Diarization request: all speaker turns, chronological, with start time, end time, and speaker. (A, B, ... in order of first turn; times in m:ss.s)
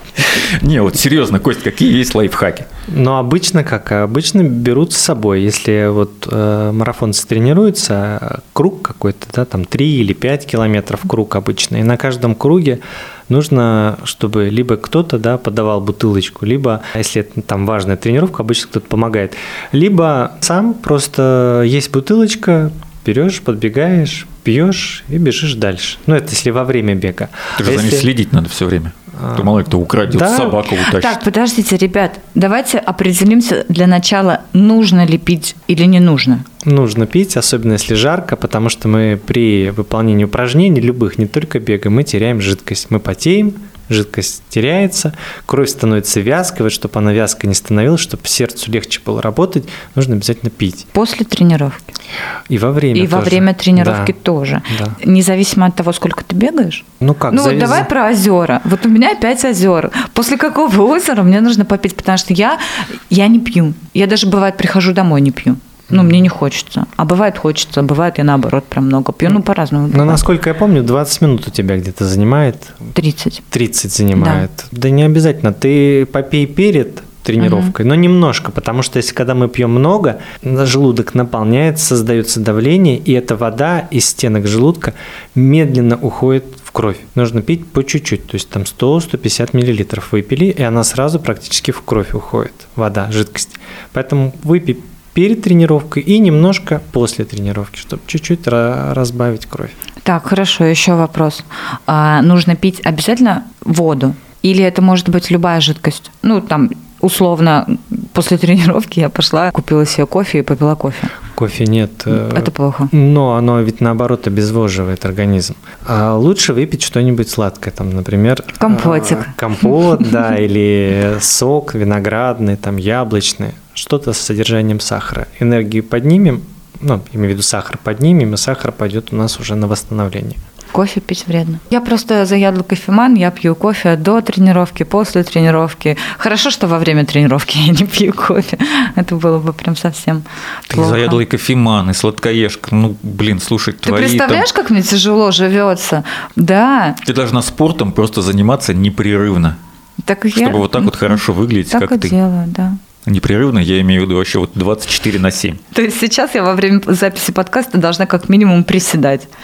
0:00.2-0:02.7 A
0:02.9-0:28.1 B
0:27.6-0:31.2 A
0:29.2-0:30.6 B
0:30.8-0:36.5 C
0:36.6-0:50.9 B
0:50.9-0:51.8 C
0:52.5-0:54.1 B
0:52.9-1:10.2 C
0:54.7-0:55.0 B
0:57.0-0:57.9 B
1:09.9-1:12.9 B
1:13.0-1:13.5 C
1:13.5-1:39.7 B
1:14.2-1:14.5 C
1:17.4-1:17.7 C
1:40.0-1:51.1 C
1:51.4-2:10.4 B
1:52.1-1:52.9 C
1:58.6-1:59.3 C
2:10.7-2:21.2 C
2:20.7-2:24.5 A
2:23.8-2:27.0 C
2:27.0-2:29.6 A
2:30.0-2:31.2 C
2:30.4-2:32.1 A
2:31.7-2:32.8 C
2:33.1-2:35.6 A
2:35.7-2:39.3 C